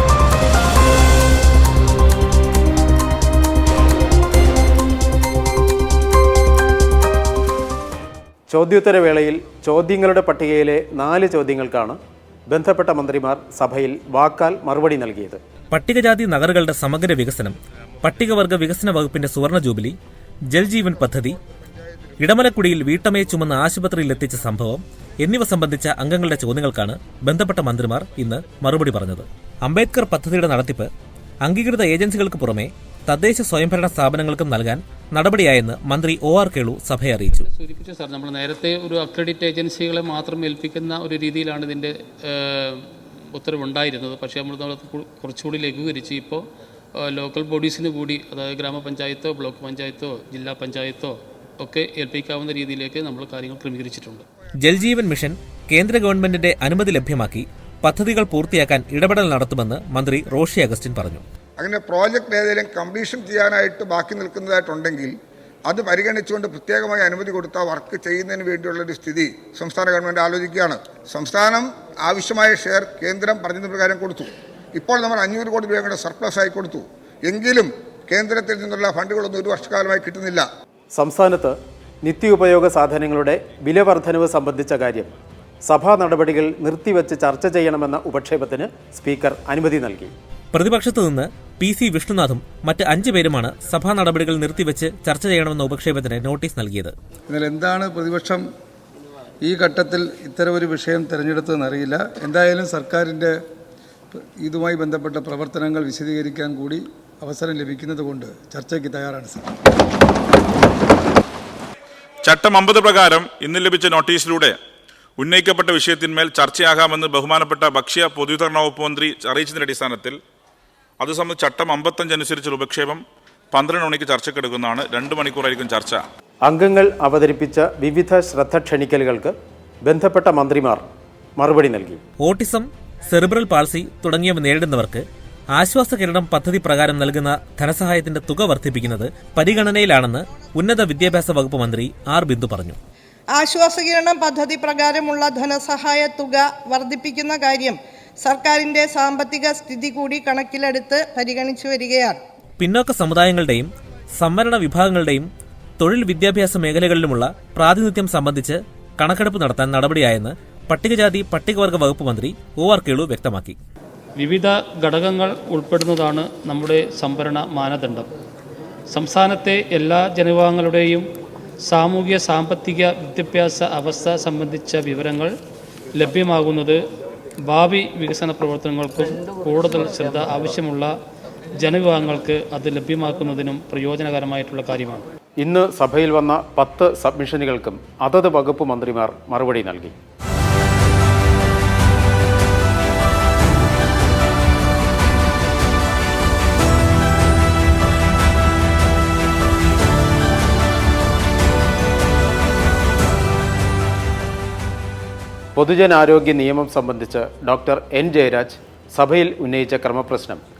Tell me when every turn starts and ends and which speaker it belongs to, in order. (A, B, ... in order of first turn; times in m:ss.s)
0:08.5-0:12.0 A
0:12.5-0:15.4 A
0:15.7-0:19.9 B
0:20.5-0:21.4 B
0:22.2-0:30.9 B
0:31.4-0:37.4 B
0:37.5-0:46.4 C
0:47.0-0:54.2 C
0:54.6-1:01.2 B
1:01.6-1:05.1 D
1:05.7-1:20.4 D
1:20.9-1:25.1 A
1:25.6-1:30.1 A
1:30.5-1:36.9 B
1:37.3-1:38.4 E
1:39.4-1:43.3 E
1:44.1-1:49.4 E
1:52.2-1:54.6 F
1:55.2-2:00.2 F
2:01.0-2:06.0 F
2:06.4-2:09.3 A
2:09.8-2:10.8 A
2:11.4-2:12.0 A
2:12.2-2:15.0 B
2:15.5-2:22.8 B
2:23.3-2:32.2 G
2:32.6-2:35.3 B
2:35.8-2:43.5 B
2:44.2-2:48.1 C
2:48.9-2:51.1 C
2:51.6-2:55.3 C
2:55.9-2:56.8 C
2:57.5-3:00.9 C
3:01.6-3:05.0 C
3:05.4-3:09.9 A
3:25.6-3:30.4 A